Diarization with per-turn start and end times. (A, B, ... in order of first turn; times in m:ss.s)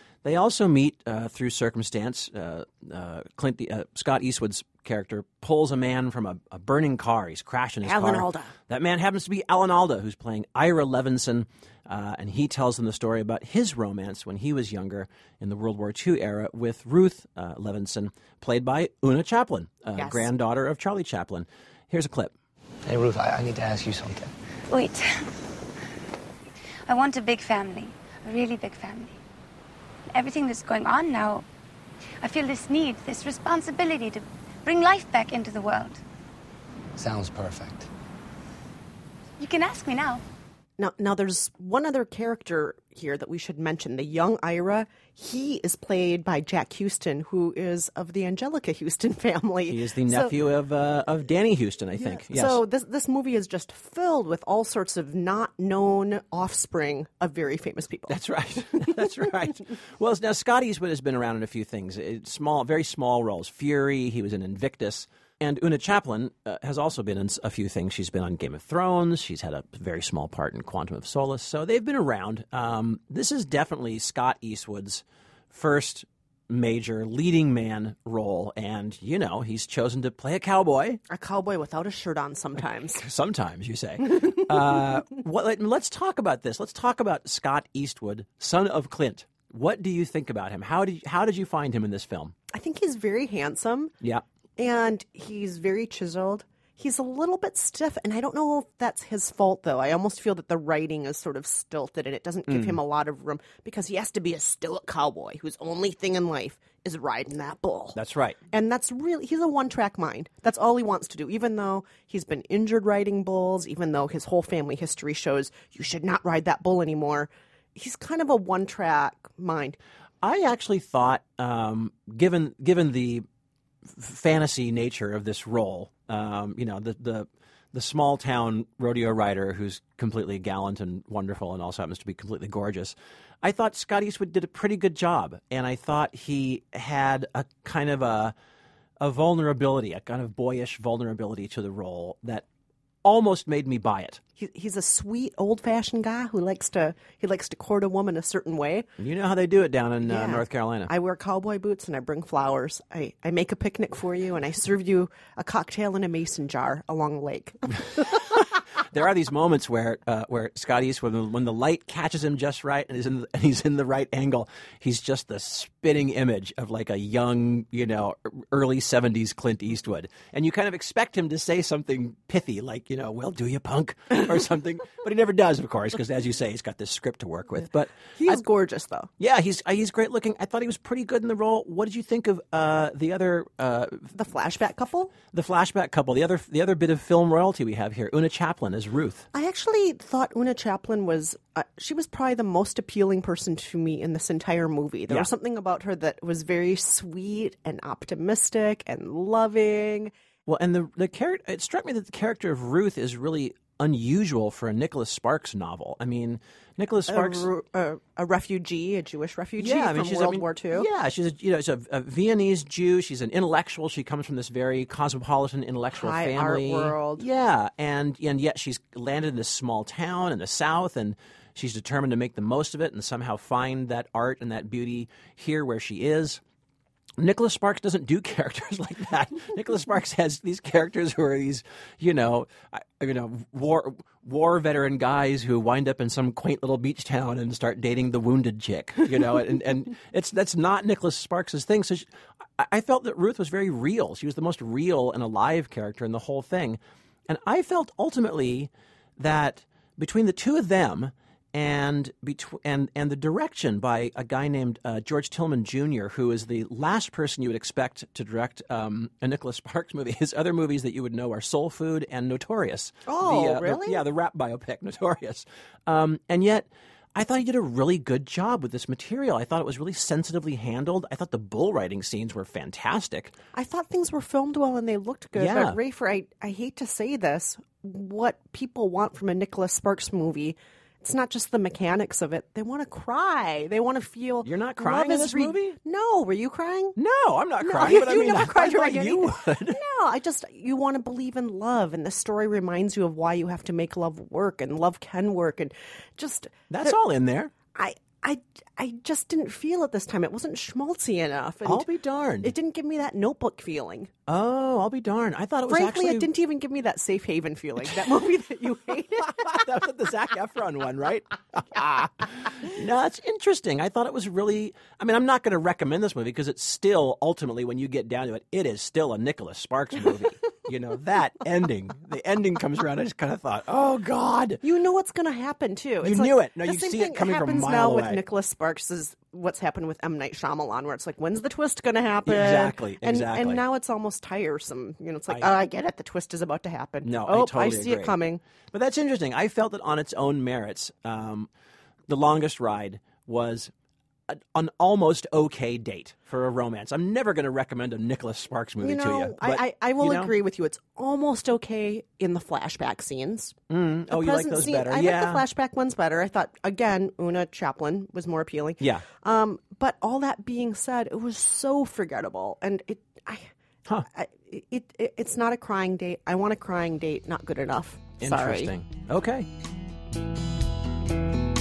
0:00.2-0:22.3 A
0:07.8-0:08.5 B
0:20.0-0:20.3 B
0:22.8-0:24.3 C
0:24.7-0:25.3 D
0:26.9-0:29.1 D
0:30.1-0:31.4 D
0:32.2-0:36.0 D
0:37.0-0:37.9 C
0:39.4-0:40.2 D
0:40.8-0:50.3 B
0:49.7-0:52.6 A
0:52.0-0:58.2 B
0:58.1-1:21.0 A
0:58.7-0:59.0 B
1:21.1-1:23.0 B
1:22.9-1:32.3 A
1:32.5-1:33.9 B
1:34.6-1:48.0 B
1:42.5-1:42.8 A
1:47.9-1:48.4 A
1:48.5-1:59.8 B
2:00.2-2:03.2 A
2:03.8-2:18.3 A
2:19.0-2:22.4 A
2:23.0-2:24.2 A
2:24.4-2:28.9 B
2:29.0-2:30.9 A
2:30.0-2:38.4 B
2:38.9-2:58.4 A
2:58.2-2:59.1 B
2:59.2-3:04.1 A
3:04.1-3:05.1 B
3:05.3-3:09.3 A
3:09.3-3:20.1 B
3:20.4-3:27.5 A
3:27.1-3:30.9 B
3:29.6-3:46.4 A
3:36.0-3:37.2 B
3:47.2-4:33.4 A
4:23.1-4:24.0 B
4:33.5-4:47.0 B
4:35.3-4:35.8 A
4:44.4-4:45.8 A
4:47.0-4:49.8 A
4:47.6-4:57.0 B
4:56.7-4:57.5 A
4:57.7-5:01.9 B
5:01.6-5:02.5 A
5:02.4-5:04.1 B
5:04.3-5:06.3 A
5:05.7-5:09.6 B
5:07.8-5:08.0 A
5:09.2-5:24.6 A
5:24.6-5:38.4 B
5:26.0-5:28.2 A
5:32.2-5:33.6 A
5:37.0-5:38.2 A
5:38.7-5:41.5 A
5:42.1-5:43.7 A
5:44.3-5:50.3 A
5:48.8-5:53.6 B
5:53.7-5:55.4 A
5:54.1-6:03.5 B
5:58.8-5:59.0 A
6:04.1-6:08.7 B
6:08.2-6:09.5 A